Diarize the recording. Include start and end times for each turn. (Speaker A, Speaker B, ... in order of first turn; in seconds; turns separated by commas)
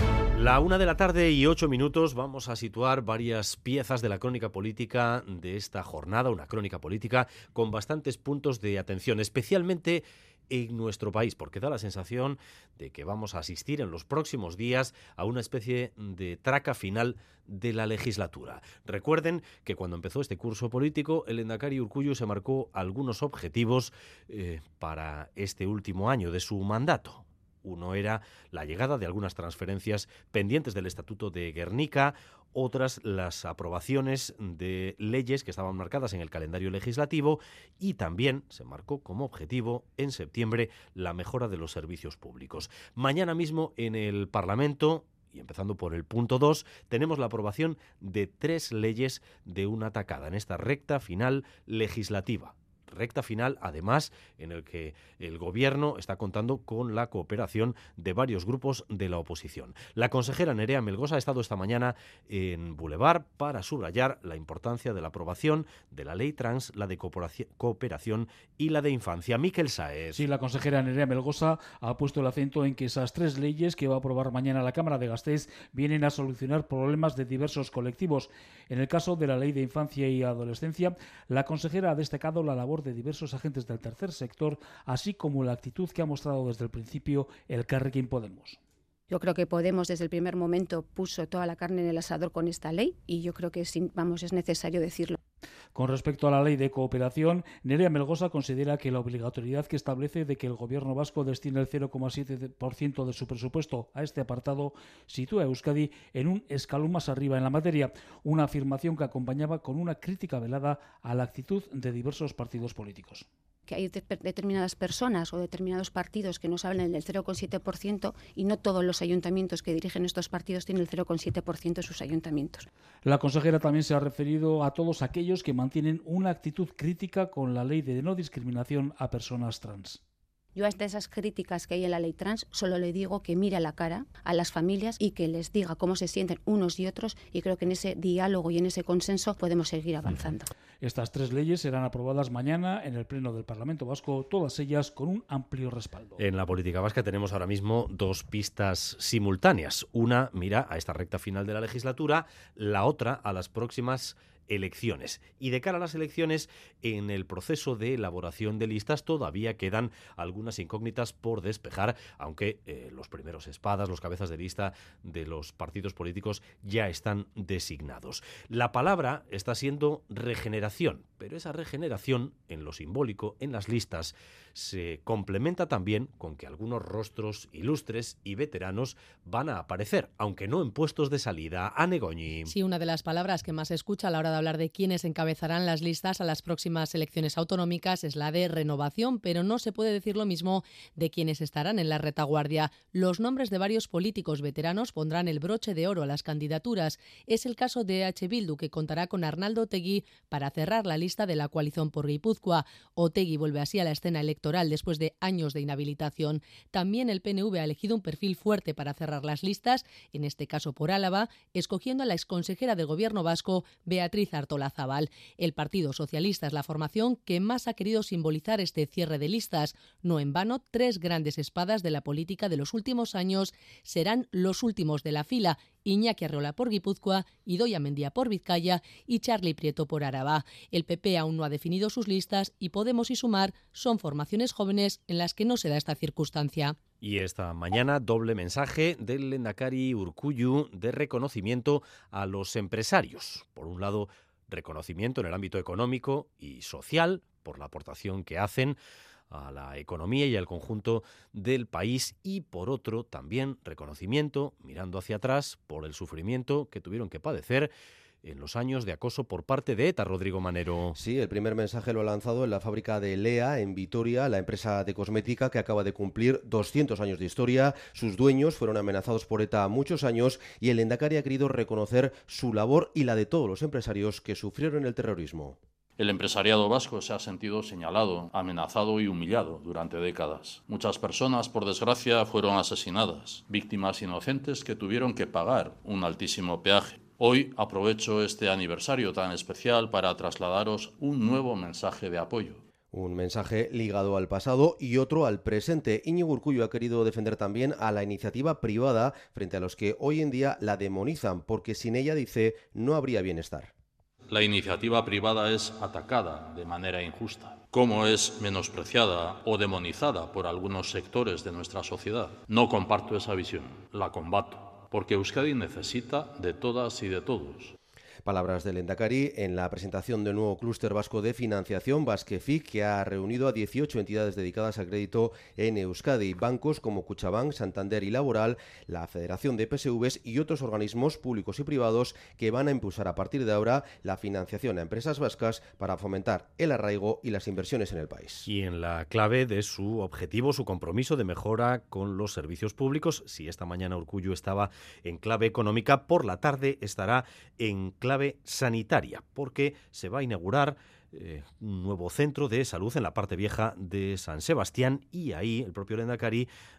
Speaker A: 0.3-70.2, Speaker B: 70.1-88.6, Speaker C: 89.1-95.2, Speaker B: 95.7-113.3, Speaker C: 113.7-122.7, Speaker B: 123.0-130.0, Speaker C: 130.5-140.5, Speaker B: 140.8-146.1, Speaker A: 146.2-182.5, Speaker D: 182.5-236.8, Speaker A: 237.0-248.8, Speaker A: 249.3-257.7, Speaker A: 258.2-260.9, Speaker E: 260.9-275.6, Speaker F: 276.0-292.6, Speaker E: 292.9-303.7, Speaker F: 304.3-317.7, Speaker E: 318.2-338.5, Speaker A: 338.4-356.5